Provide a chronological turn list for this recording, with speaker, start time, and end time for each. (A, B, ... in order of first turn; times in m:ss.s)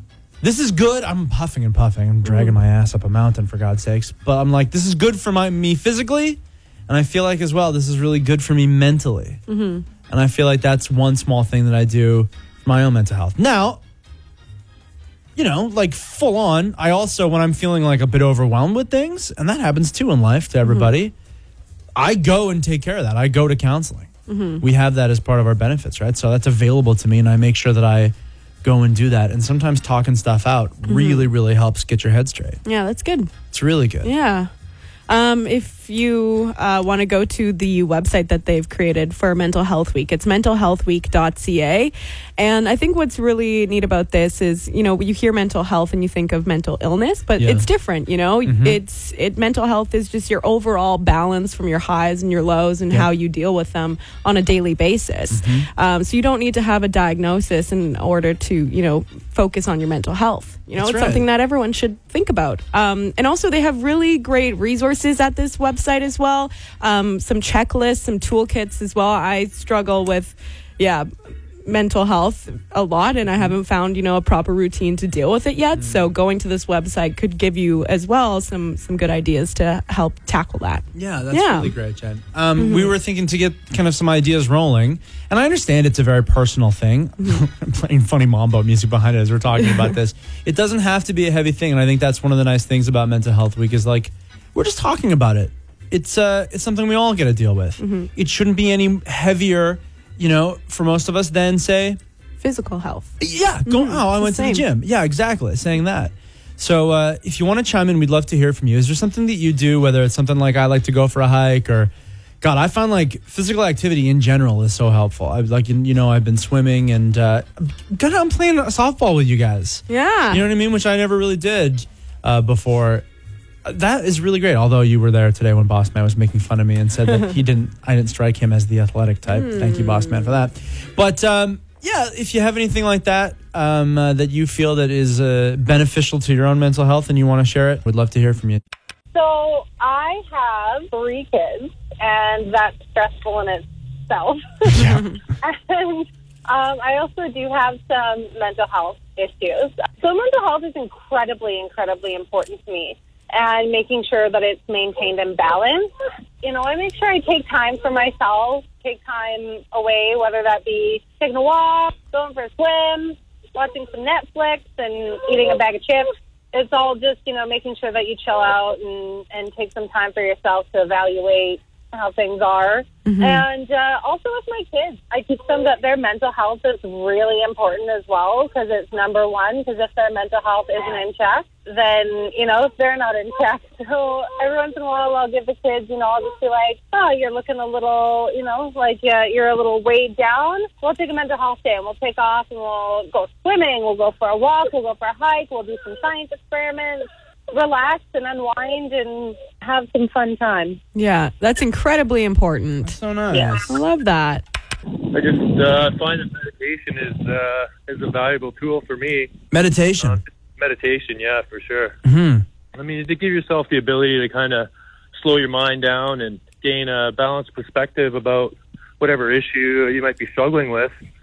0:00.4-0:09.4 A
0:02.2-0:02.6 B
0:09.5-0:09.8 B
0:10.1-0:13.8 A
0:15.4-0:21.1 A
0:20.6-0:20.9 B
0:22.0-0:32.6 A
0:24.3-0:24.6 B
0:30.9-0:31.3 B
0:32.6-0:33.3 B
0:33.5-0:34.1 A
0:34.0-0:34.5 B
0:35.1-1:11.1 B
0:47.4-0:47.7 A
0:48.4-0:48.8 A
0:55.3-0:55.7 A
1:00.8-1:01.2 A
1:11.6-1:21.7 B
1:15.7-1:16.1 A
1:20.9-1:42.0 A
1:22.6-1:22.9 B
1:37.8-1:38.1 B
1:42.4-1:43.1 B
1:43.2-2:03.0 A
1:43.6-1:44.6 B
1:59.9-2:00.5 B
2:03.6-2:18.6 A
2:09.3-2:10.3 B
2:19.1-2:24.9 C
2:24.7-2:25.1 A
2:25.4-2:35.9 C
2:36.4-3:20.8 C
2:53.0-2:53.4 B
3:20.9-3:23.0 B
3:22.8-3:23.7 A
3:23.5-3:24.4 B
3:25.1-3:29.3 D
3:29.5-3:30.2 A
3:30.0-3:32.0 D
3:32.0-3:32.4 A
3:32.7-3:40.9 D